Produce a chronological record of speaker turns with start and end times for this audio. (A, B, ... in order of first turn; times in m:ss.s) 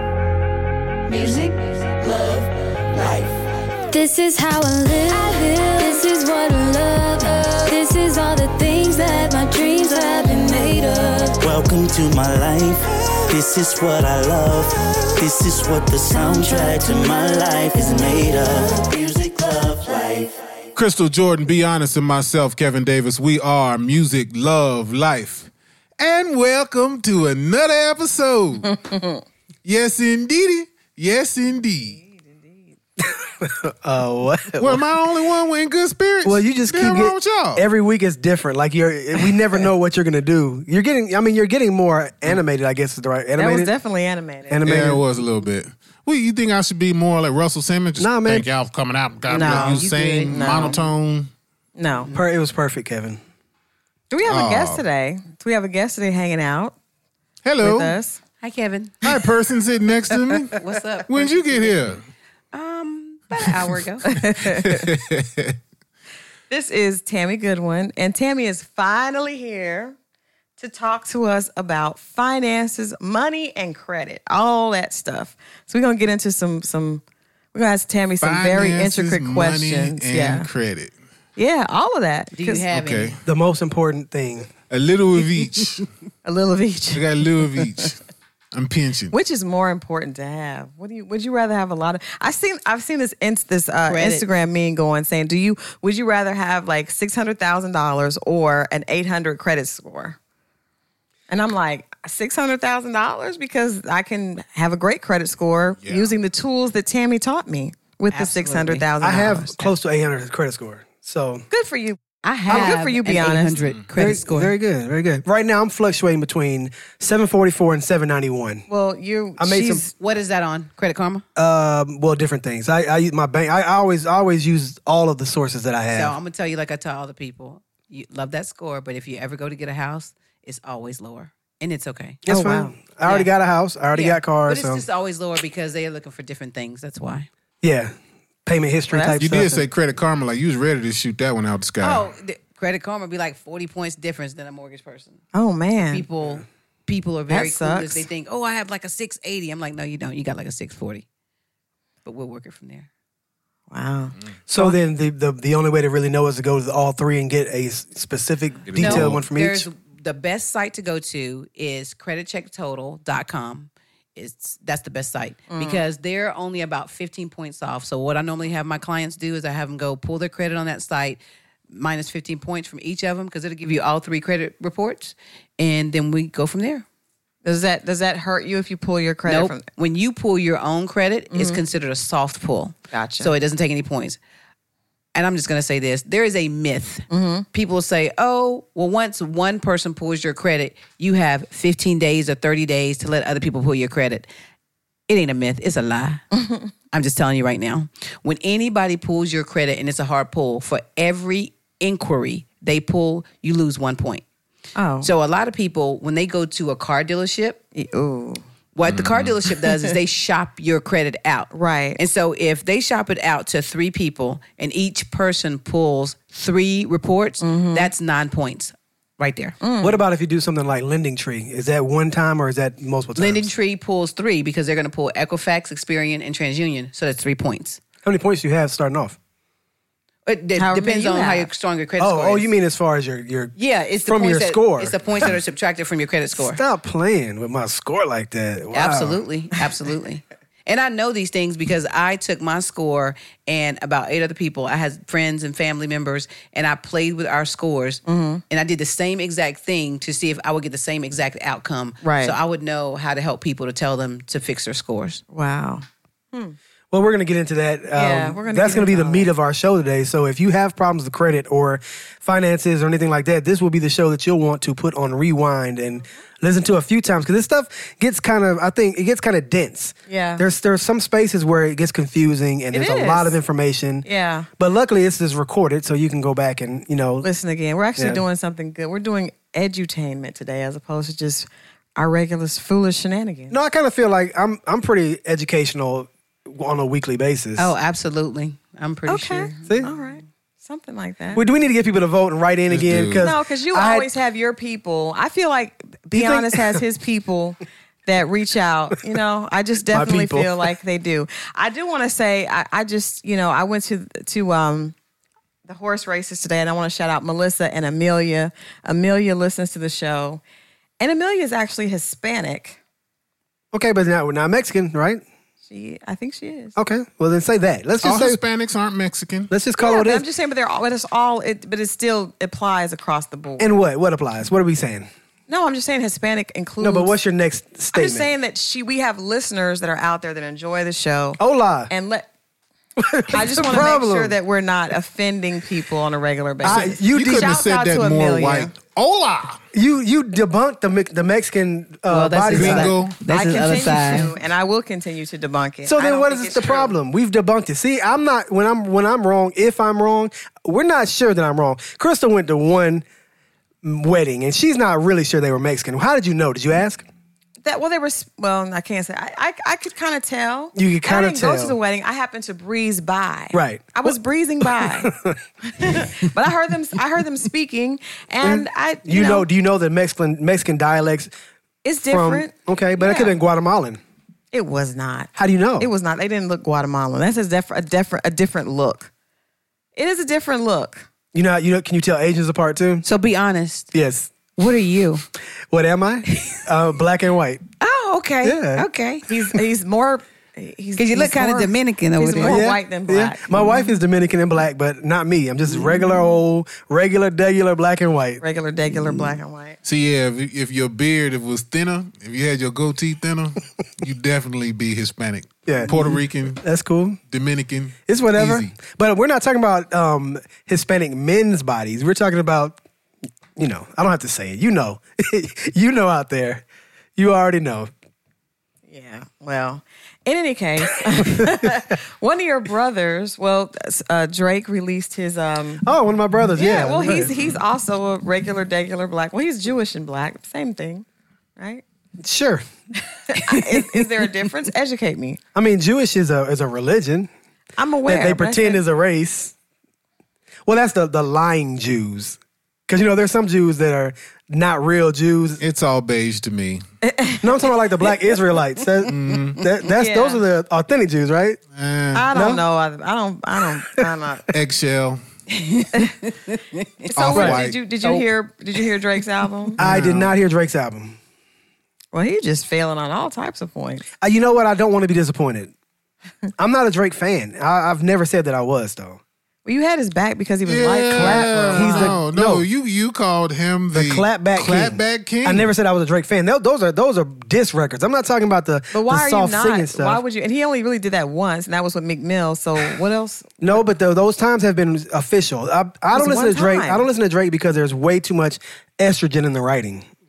0:01.0-0:11.4 A
0:11.4-0:20.4 B
0:16.2-0:16.8 A
0:20.8-0:28.6 C
0:28.6-0:29.2 D
0:29.6-0:32.0 C
0:31.9-0:32.7 D
0:33.0-0:34.8 E
0:34.6-0:37.6 C
0:36.2-0:43.7 E
0:43.4-0:44.6 D
0:44.5-0:45.0 E
0:44.6-0:51.3 C
0:48.0-0:48.5 E
0:49.3-0:50.8 D
0:49.4-0:50.8 F
0:51.8-0:52.1 D
0:52.1-0:53.2 E
0:54.1-0:56.8 D
0:54.3-0:54.8 C
0:57.4-0:58.0 C
0:57.6-0:58.2 D
0:58.4-0:59.2 F
0:59.0-1:02.0 C
1:00.1-1:01.8 F
1:02.5-1:04.1 F
1:04.1-1:04.9 D
1:04.4-1:05.6 C
1:06.5-1:10.0 D
1:10.6-1:17.0 D
1:17.5-1:20.5 D
1:18.2-1:20.9 C
1:21.4-1:22.7 D
1:22.3-1:23.2 F
1:22.7-1:23.2 C
1:23.2-1:24.5 E
1:24.7-1:25.8 C
1:26.2-1:27.7 D
1:26.9-1:28.0 C
1:28.5-1:29.1 C
1:29.1-1:40.2 D
1:33.9-1:34.2 F
1:41.3-1:49.7 D
1:45.8-1:46.1 C
1:48.1-1:48.9 F
1:49.0-1:51.5 E
1:51.5-1:53.6 D
1:52.2-1:54.5 F
1:54.0-1:58.7 E
1:58.7-1:59.9 D
1:59.4-1:59.8 E
2:00.0-2:01.2 F
2:01.4-2:06.2 E
2:05.9-2:12.2 F
2:12.3-2:14.8 E
2:12.3-2:12.8 D
2:13.0-2:13.3 F
2:13.9-2:17.3 F
2:17.6-2:17.9 E
2:18.5-2:19.7 E
2:18.9-2:19.2 D
2:19.2-2:22.1 C
2:21.8-2:25.2 F
2:25.3-2:26.1 D
2:25.8-2:31.0 F
2:27.3-2:28.0 D
2:32.0-2:32.9 F
2:33.7-2:34.8 D
2:34.5-2:39.7 E
2:38.7-2:39.2 C
2:38.8-2:56.8 F
2:45.5-2:45.8 D
2:57.4-2:59.6 D
2:59.3-3:04.2 F
3:01.3-3:01.6 D
3:02.9-3:03.3 D
3:05.2-3:14.3 F
3:07.1-3:07.5 D
3:15.1-3:16.2 F
3:16.4-3:16.7 D
3:16.9-3:24.2 F
3:24.8-3:25.1 D
3:25.0-3:27.6 F
3:27.8-3:28.4 D
3:28.8-3:39.6 F
3:28.8-3:29.4 C
3:29.7-3:29.9 D
3:31.5-3:32.0 D
3:37.4-3:37.9 D
3:39.6-3:40.0 D
3:39.8-3:43.5 E
3:43.2-3:47.8 F
3:48.0-3:49.2 E
3:50.3-3:52.5 F
3:50.6-3:51.5 D
3:52.0-3:55.3 E
3:53.6-3:56.6 F
3:56.4-3:59.2 E
3:58.7-4:15.2 F
4:08.1-4:08.4 D
4:12.0-4:12.4 D
4:15.3-4:16.6 D
4:16.9-4:34.1 E
4:18.0-4:19.3 D
4:30.1-4:30.4 D
4:32.7-4:33.4 D
4:34.0-4:34.5 D
4:34.6-4:37.3 E
4:37.2-4:43.6 D
4:43.5-4:47.7 E
4:47.6-4:49.7 F
4:49.1-4:51.4 D
4:51.4-4:54.1 E
4:52.7-4:53.3 C
4:53.2-5:05.0 D
4:56.1-4:56.8 E
4:59.9-5:00.7 E
5:05.7-5:10.4 D
5:11.0-5:12.8 D
5:13.7-5:15.2 E
5:15.7-5:16.7 D
5:16.8-5:18.4 E
5:18.0-5:19.5 C
5:19.5-5:20.3 E
5:19.8-5:23.7 D
5:23.6-5:25.1 E
5:25.5-5:27.1 D
5:26.8-5:28.3 E
5:27.9-5:32.3 D
5:31.4-5:31.9 E
5:33.0-5:34.4 E
5:33.3-5:38.7 D
5:36.6-5:37.6 E
5:36.7-5:39.6 C
5:39.7-5:42.9 E
5:42.1-5:44.3 F
5:42.5-5:43.2 C
5:43.3-5:46.9 D
5:45.8-5:53.0 E
5:53.8-5:57.0 E
5:57.6-6:05.1 D
6:00.8-6:01.8 E
6:03.5-6:06.1 E
6:05.7-6:09.5 D
6:08.4-6:11.3 E
6:11.8-6:13.3 D
6:12.1-6:14.0 E
6:14.5-6:19.1 D
6:15.4-6:15.9 E
6:20.0-6:21.0 D
6:21.3-6:23.0 E
6:23.0-6:23.9 F
6:23.9-6:24.3 E
6:24.6-6:25.2 F
6:25.7-6:27.6 E
6:27.8-6:29.2 F
6:28.4-6:28.9 E
6:29.3-6:33.8 D
6:31.0-6:32.6 F
6:32.4-6:39.4 E
6:38.4-6:39.8 D
6:39.8-6:46.6 C
6:45.7-6:47.2 E
6:47.3-6:48.7 C
6:48.1-6:52.8 E
6:53.6-6:56.6 E
6:57.2-6:57.9 E
6:58.9-7:05.8 D
7:01.2-7:01.7 E
7:05.8-7:07.4 E
7:06.6-7:11.1 D
7:11.6-7:11.8 D
7:12.2-7:12.6 E
7:13.3-7:15.4 D
7:15.6-7:17.3 E
7:17.8-7:18.8 D
7:18.1-7:19.5 E
7:20.7-7:25.6 E
7:25.6-7:26.8 C
7:27.0-7:28.2 D
7:27.4-7:31.6 E
7:29.1-7:29.6 C
7:29.9-7:30.4 D
7:31.7-7:32.3 C
7:32.1-7:34.5 D
7:32.3-7:32.6 E
7:33.8-7:34.1 E
7:34.5-7:35.2 C
7:35.5-7:36.9 F
7:37.1-7:39.8 D
7:37.2-7:37.8 C
7:39.8-7:41.2 E
7:39.8-7:40.4 C
7:42.1-7:44.0 D
7:44.2-7:45.7 E
7:46.6-7:49.2 E
7:49.6-7:52.2 D
7:50.7-7:55.7 C
7:51.1-7:52.7 E
7:53.9-8:00.2 E
7:58.9-8:03.8 D
8:03.6-8:10.1 E
8:06.1-8:07.0 D